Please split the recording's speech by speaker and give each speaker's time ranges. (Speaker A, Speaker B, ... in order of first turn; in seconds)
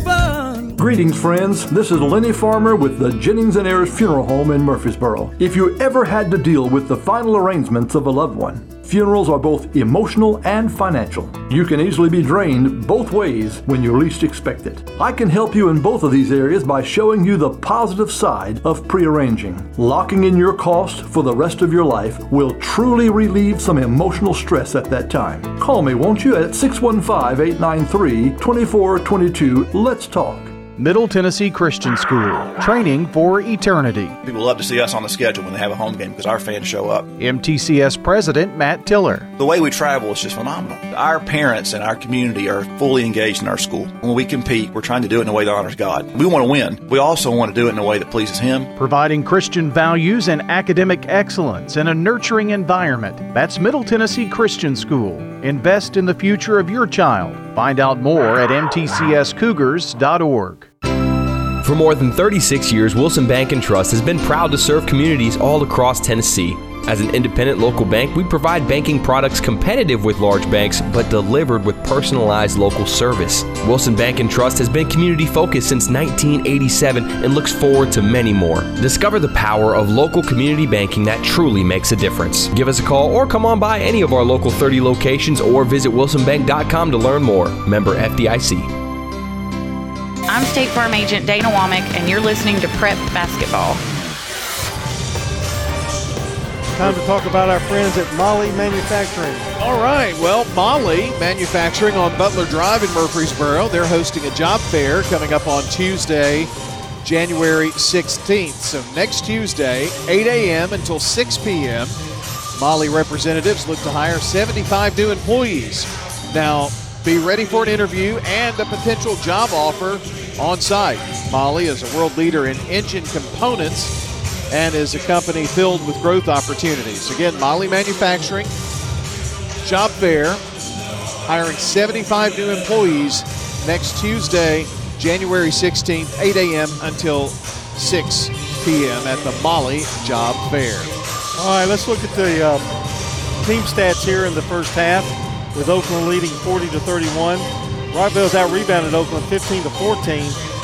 Speaker A: 0.8-30.6
Speaker B: 30.8-34.2, 37.2-39.3, 48.8-60.7
Speaker C: 34.2-37.1, 39.4-48.7
Speaker D: 61.6-88.7
Speaker E: 90.3-93.8
Speaker F: 96.8-99.5, 141.4-142.7, 143.4-150.4
Speaker G: 99.6-106.5, 107.0-112.0, 112.5-124.0, 124.5-128.6, 129.6-130.4, 131.2-140.9